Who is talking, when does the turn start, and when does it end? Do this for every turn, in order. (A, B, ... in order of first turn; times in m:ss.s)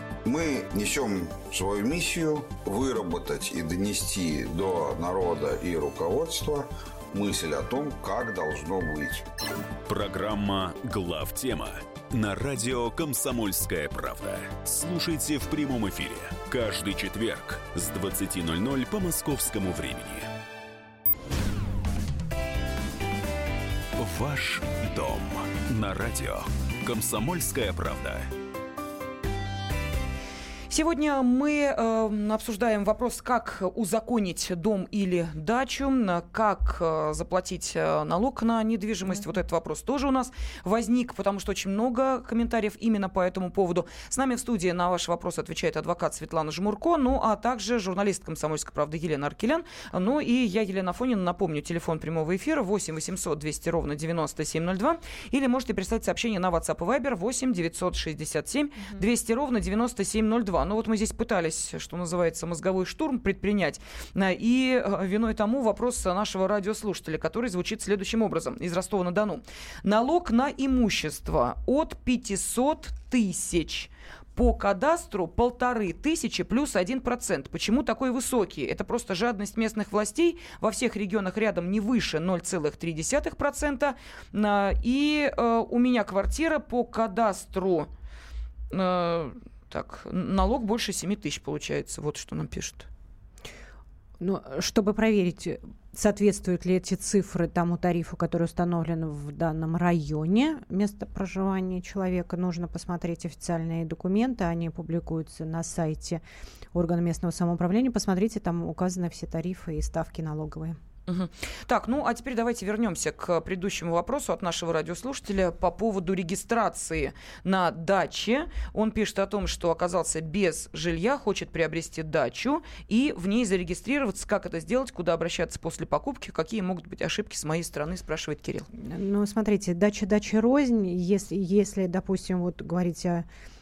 0:00.2-0:09.2 A
0:09.9-0:20.3 B
0:24.0-0:28.3 B
0:30.7-1:27.9 C
1:28.7-1:32.9 C
1:34.2-1:50.8 D
1:51.1-2:08.7 C
2:08.7-2:13.2 D